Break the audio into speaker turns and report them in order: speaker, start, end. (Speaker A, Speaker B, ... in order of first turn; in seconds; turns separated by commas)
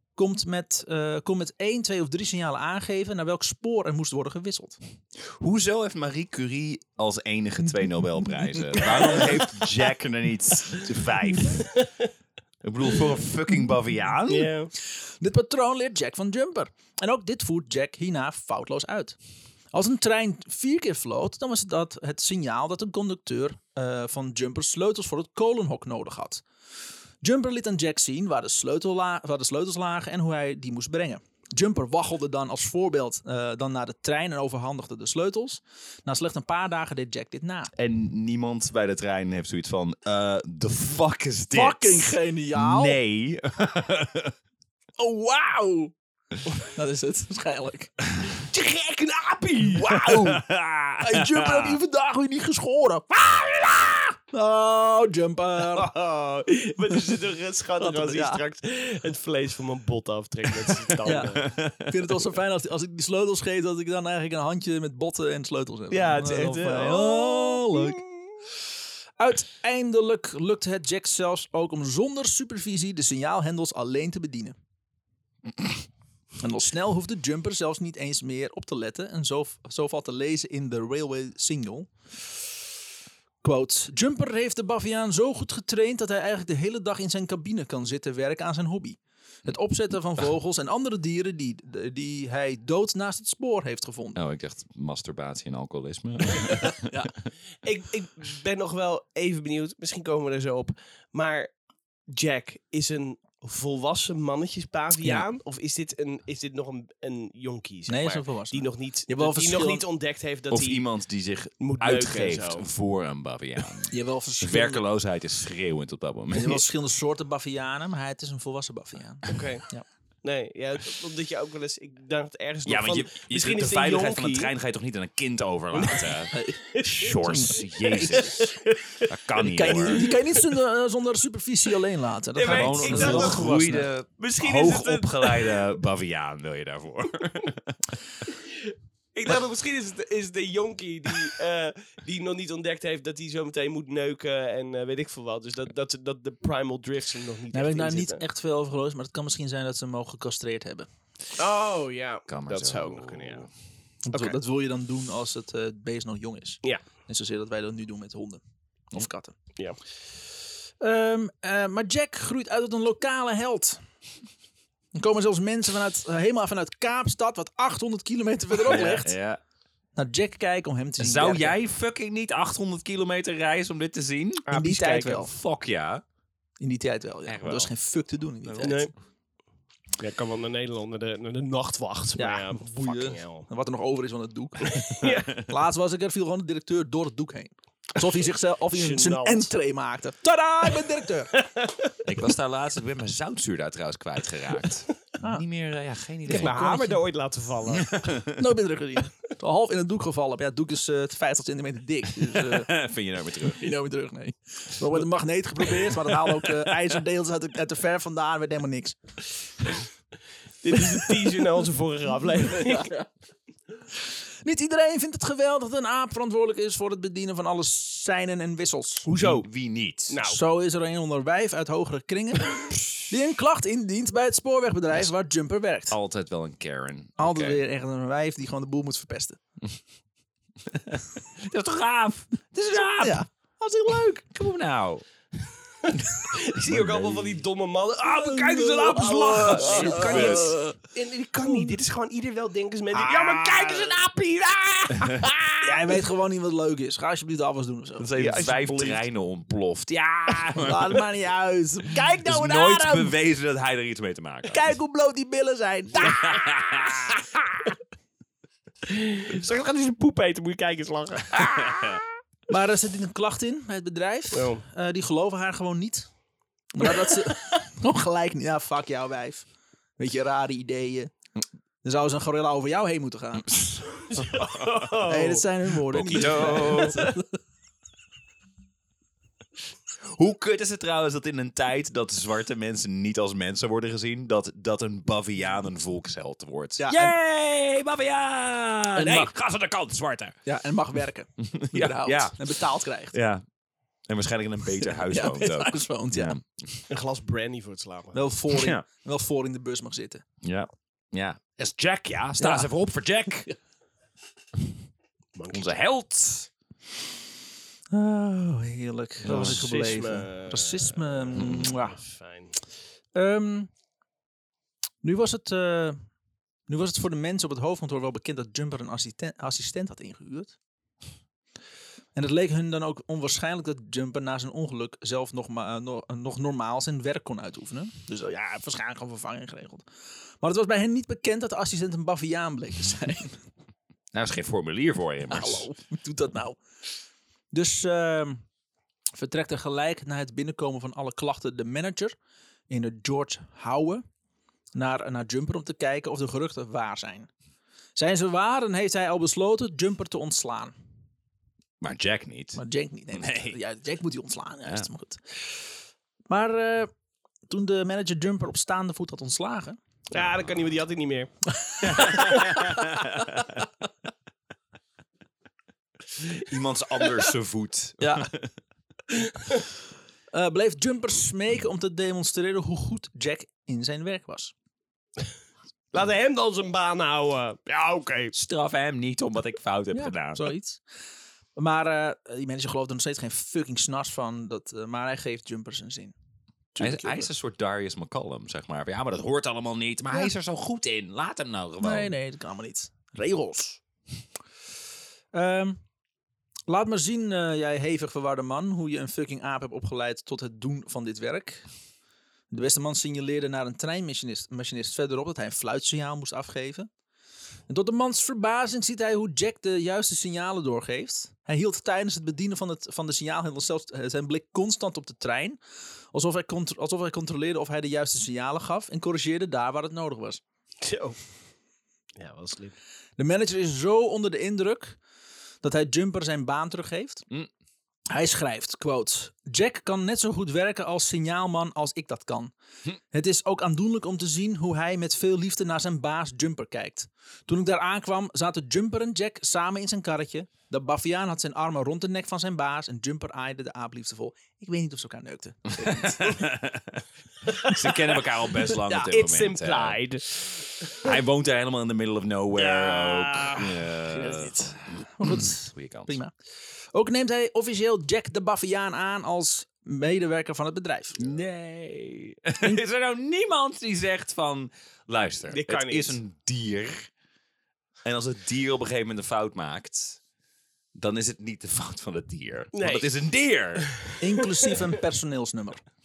Speaker A: 0.2-4.8, Speaker B: 5.2-11.8, Speaker A: 8.8-9.2, Speaker C: 11.6-11.9, Speaker B: 12.6-14.5, Speaker C: 14.3-14.7, Speaker A: 15.2-19.2, Speaker A: 19.7-26.4, Speaker A: 27.2-37.7, Speaker B: 37.8-44.4, Speaker A: 41.5-43.0, Speaker A: 45.0-45.9, Speaker A: 46.5-48.0, Speaker C: 48.4-49.9, Speaker A: 49.6-50.5, Speaker B: 49.8-51.8, Speaker A: 51.0-53.5, Speaker A: 54.3-55.9, Speaker C: 55.7-61.5, Speaker A: 57.8-58.4, Speaker A: 61.0-68.0, Speaker B: 61.4-62.2, Speaker C: 65.9-68.3, Speaker A: 69.2-74.6, Speaker A: 76.4-81.9, Speaker A: 83.4-94.2, Speaker B: 94.2-96.9, Speaker A: 96.9-97.1, Speaker C: 97.6-101.5, Speaker C: 102.1-110.9, Speaker A: 105.0-105.3, Speaker A: 107.9-109.8, Speaker B: 110.5-116.7, Speaker C: 111.6-112.7, Speaker A: 113.9-114.8, Speaker A: 116.3-119.8, Speaker C: 119.3-119.7, Speaker C: 120.2-124.5, Speaker B: 122.7-128.5, Speaker C: 125.7-127.2, Speaker A: 126.3-126.6, Speaker A: 127.2-128.3, Speaker C: 128.2-129.1, Speaker B: 129.1-130.1, Speaker A: 129.4-133.9, Speaker C: 129.7-130.2, Speaker C: 132.3-135.7, Speaker B: 132.4-138.0, Speaker C: 138.3-148.2, Speaker A: 147.5-150.9, Speaker C: 151.4-153.5, Speaker B: 152.3-153.5, Speaker A: 154.1-158.4, Speaker C: 154.1-154.4, Speaker A: 158.9-159.4, Speaker A: 160.8-163.8, Speaker A: 164.9-169.2, Speaker B: 168.7-169.4, Speaker A: 170.0-171.6, Speaker B: 171.0-174.4, Speaker C: 174.5-175.2, Speaker A: 174.5-175.3, Speaker B: 175.2-176.0, Speaker A: 176.6-178.9, Speaker B: 177.3-177.7, Speaker B: 178.4-178.8, Speaker C: 178.6-178.9, Speaker C: 180.0-183.5, Speaker A: 182.2-191.4, Speaker C: 184.7-185.3, Speaker C: 188.7-189.5, Speaker C: 191.4-191.9, Speaker B: 192.0-196.6, Speaker A: 196.3-197.0, Speaker C: 196.3-198.1, Speaker B: 197.7-198.4, Speaker A: 198.3-202.7, Speaker B: 202.3-203.7, Speaker A: 203.4-209.0, Speaker C: 210.6-213.0, Speaker A: 214.4-219.1, Speaker C: 219.1-219.5, Speaker B: 219.2-220.2, Speaker C: 220.1-220.4, Speaker A: 220.2-226.0, Speaker B: 225.9-227.6, Speaker A: 227.2-229.4, Speaker B: 230.9-233.2, Speaker A: 233.0-234.2, Speaker B: 234.3-235.1, Speaker C: 235.9-245.6, Speaker B: 236.6-237.4, Speaker B: 238.0-240.6, Speaker A: 238.4-240.8, Speaker A: 241.4-241.7, Speaker B: 242.9-244.1, Speaker B: 244.9-245.5, Speaker A: 245.6-248.1, Speaker B: 248.0-251.0, Speaker C: 248.2-249.0, Speaker A: 250.6-253.2, Speaker B: 252.2-254.7, Speaker A: 254.5-256.9, Speaker B: 256.0-257.3, Speaker C: 258.9-262.0, Speaker B: 261.4-262.0, Speaker A: 262.5-266.1, Speaker C: 264.3-264.6, Speaker A: 266.7-269.5, Speaker A: 270.0-271.1, Speaker A: 271.8-273.8, Speaker C: 274.0-275.5, Speaker B: 274.4-274.7, Speaker A: 275.0-277.3, Speaker B: 275.9-277.1, Speaker C: 276.1-277.0, Speaker B: 280.1-290.4, Speaker A: 286.8-287.1, Speaker A: 289.0-289.3, Speaker A: 290.5-293.1, Speaker B: 291.4-292.6, Speaker B: 293.1-293.4, Speaker B: 294.1-296.8, Speaker A: 294.9-296.4, Speaker C: 296.9-298.2, Speaker A: 298.1-300.2, Speaker B: 298.5-298.8, Speaker B: 300.4-303.5, Speaker A: 302.4-302.7, Speaker C: 305.4-305.7, Speaker B: 305.5-306.5, Speaker A: 307.9-312.0, Speaker B: 309.2-309.6, Speaker C: 309.2-312.6, Speaker B: 311.4-311.7, Speaker A: 313.1-313.7, Speaker A: 315.0-316.0, Speaker A: 316.7-320.6, Speaker A: 322.1-329.9, Speaker A: 330.4-333.4, Speaker B: 334.1-335.7, Speaker A: 335.3-336.6, Speaker A: 337.5-338.4, Speaker A: 339.1-342.1, Speaker A: 342.7-344.0, Speaker A: 344.8-347.3, Speaker A: 348.0-350.7, Speaker B: 351.8-352.6, Speaker A: 352.6-355.6, Speaker B: 353.1-353.6, Speaker A: 356.3-356.9, Speaker A: 357.5-359.8, Speaker C: 360.1-361.3, Speaker A: 361.7-362.7, Speaker B: 361.8-363.6, Speaker C: 362.0-362.3, Speaker B: 366.2-368.5, Speaker A: 368.0-368.3, Speaker A: 370.3-374.5, Speaker C: 375.9-378.3, Speaker B: 378.3-380.5, Speaker A: 379.9-380.8, Speaker A: 381.6-386.1, Speaker A: 386.7-387.3, Speaker B: 386.8-392.1, Speaker A: 391.8-393.8, Speaker A: 395.3-395.8, Speaker A: 396.7-401.6, Speaker A: 402.5-406.9, Speaker A: 407.7-415.6, Speaker A: 416.1-420.4, Speaker C: 420.8-421.2, Speaker C: 422.2-422.8, Speaker A: 423.2-425.0, Speaker A: 425.6-427.3, Speaker A: 428.1-432.5, Speaker A: 433.1-446.4, Speaker B: 445.8-447.0, Speaker B: 447.6-450.0, Speaker C: 447.7-448.2, Speaker C: 448.7-451.1, Speaker B: 451.0-456.2, Speaker A: 452.6-456.3, Speaker A: 456.9-461.4, Speaker B: 461.2-467.1, Speaker C: 465.5-466.2, Speaker B: 468.1-470.2, Speaker B: 470.9-473.9, Speaker C: 472.7-473.2, Speaker C: 473.8-474.7, Speaker A: 474.2-475.8